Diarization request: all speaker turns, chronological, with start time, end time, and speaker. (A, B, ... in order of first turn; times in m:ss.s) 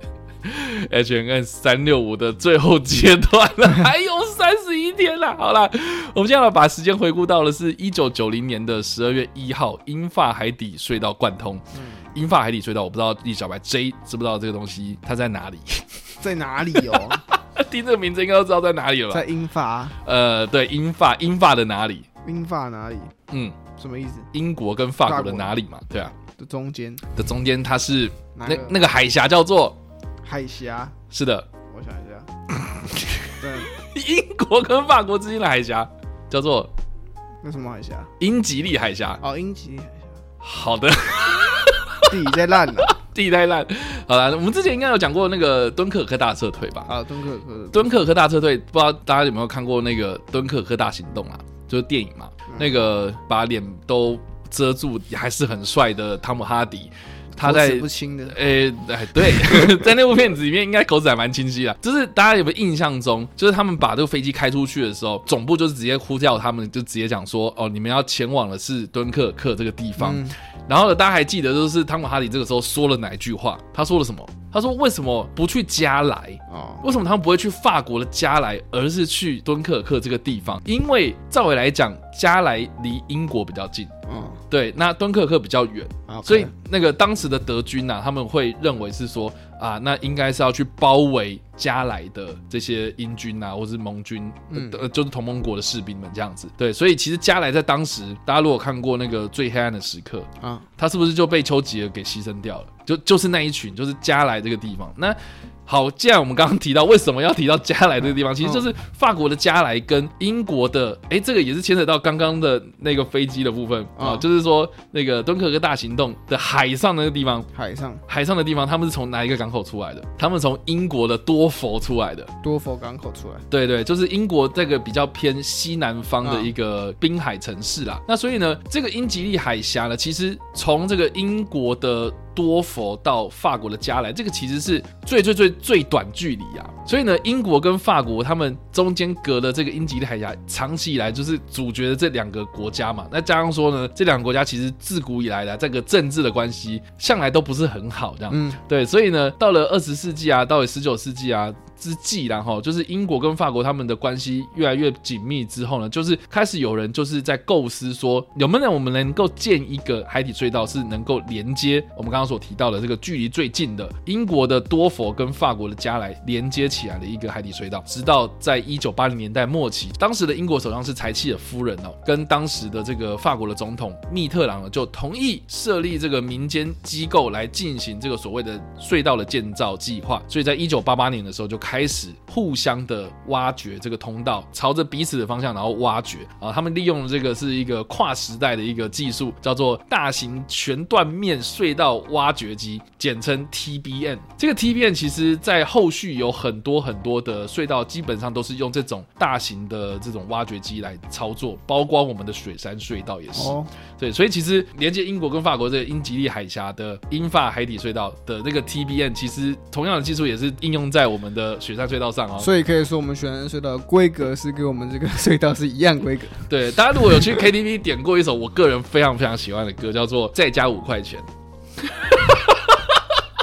0:00.4-0:16.2 A
0:11.7-0:12.2 B
0:16.2-0:17.2 B
0:16.9-0:19.2 A
0:19.1-0:20.0 B
0:20.0-0:22.0 A
0:22.2-0:23.1 B
0:23.3-0:23.6 A
0:23.8-0:24.3 B
0:24.3-0:26.2 A
0:25.0-0:25.6 B
0:26.4-0:27.0 B
0:27.1-0:29.8 A
0:28.3-0:28.8 B
0:30.2-0:30.9 B
0:31.1-0:31.4 A
0:31.7-0:32.3 B
0:32.6-0:36.7 A
0:33.4-0:33.7 B
0:37.4-0:38.1 B
0:38.2-0:39.2 A
0:39.2-0:40.2 B
0:40.4-0:46.9 A
0:42.1-0:42.9 B
0:46.8-0:48.0 B
0:47.7-1:23.9 A
0:52.5-0:52.8 B
0:57.4-0:58.4 B
1:10.0-1:10.3 B
1:16.5-1:16.8 B
1:24.1-1:24.4 B
1:24.5-1:57.5 A
1:26.1-1:26.5 B
1:34.5-1:34.8 B
1:40.4-1:40.7 B
1:54.0-1:54.2 B
1:57.5-1:58.0 B
1:58.1-2:02.3 A
2:02.4-2:03.4 B
2:03.5-3:32.5 A
2:06.2-2:06.5 B
2:28.3-2:28.6 B
3:23.3-3:23.7 B
3:32.4-3:36.5 B
3:36.5-3:41.3 A
3:41.8-3:43.2 A